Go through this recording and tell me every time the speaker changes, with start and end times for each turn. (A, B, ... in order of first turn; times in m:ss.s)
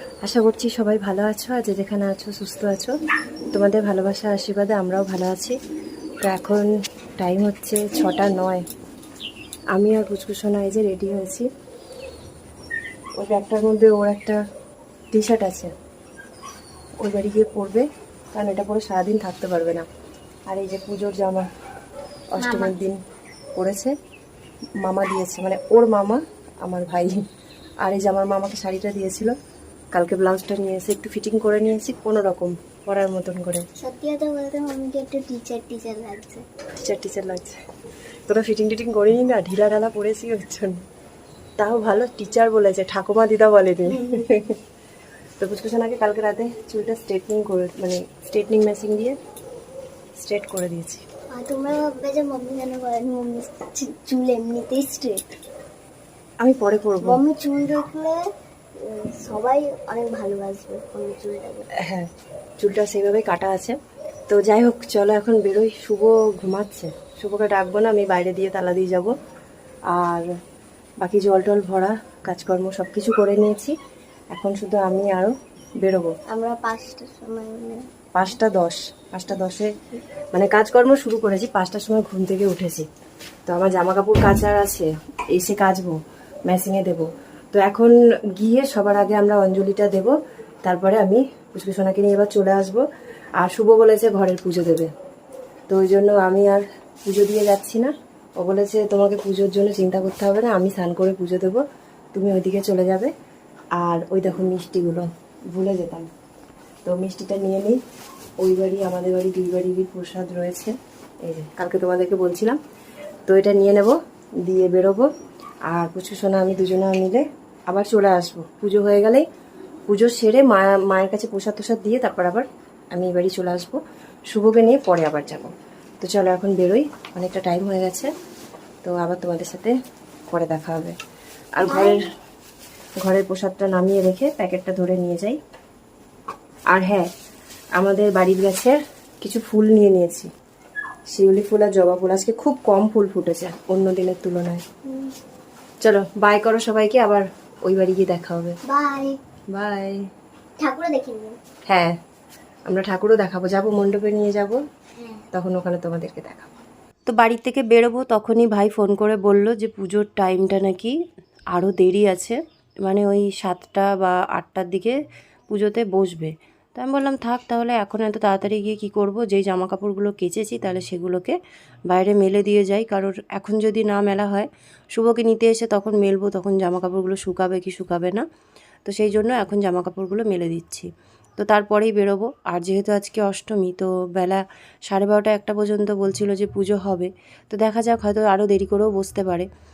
0:00.2-0:02.9 A
0:03.5-0:05.6 A
0:06.2-0:08.6 A
0:09.7-0:11.5 A
0:13.2-0:14.4 A
0:15.1-0:15.7 A
0:17.0-0:19.9 A
0:20.5-0:21.5 A
0:22.3-0:23.0 A
0:22.4-0:22.7 B
0:23.6-0:23.9 A
0:24.8-0:27.2 A
0:27.8-0:29.3 A
0:29.9-0:33.6 A
0:33.8-0:36.4 B
0:36.8-0:37.6 A
0:38.3-0:40.8 A
0:41.6-0:44.6 A
0:43.8-0:44.3 B
0:45.4-0:49.2 A
0:50.2-0:51.0 A
0:51.3-0:55.2 B
0:56.4-0:57.2 A
0:57.0-0:58.2 B
0:58.8-1:01.7 B
1:01.8-1:03.8 A
1:04.3-1:09.1 A
1:09.9-1:10.3 A
1:11.0-1:13.7 A
1:14.3-1:16.1 A
1:16.3-1:17.8 B
1:18.1-1:19.7 A
1:20.3-1:22.8 A
1:23.5-1:25.9 A
1:26.5-1:30.1 A
1:30.6-1:32.8 A
1:33.4-1:34.9 A
1:35.7-1:41.6 A
1:42.1-1:43.1 A
1:43.8-1:46.1 A
1:46.8-1:47.8 A
1:48.4-1:52.6 A
1:53.3-1:55.1 A
1:55.7-1:59.2 A
1:59.9-2:03.8 A
2:04.3-2:08.1 A
2:08.8-2:09.7 A
2:10.3-2:10.9 A
2:11.6-2:12.0 A
2:11.6-2:12.0 B
2:13.0-2:15.4 A
2:16.7-2:17.1 A
2:17.8-2:20.3 A
2:21.1-2:24.6 A
2:24.8-2:25.1 B
2:25.8-2:28.6 A
2:28.6-2:29.2 B
2:29.5-2:30.0 A
2:30.6-2:31.4 B
2:31.7-2:31.9 A
2:32.7-2:34.6 A
2:35.0-2:35.2 B
2:35.3-2:36.5 A
2:37.1-2:41.0 A
2:41.5-2:45.0 A
2:45.5-2:51.4 A
2:51.9-2:58.2 A
2:58.9-3:00.9 A
3:01.4-3:09.5 A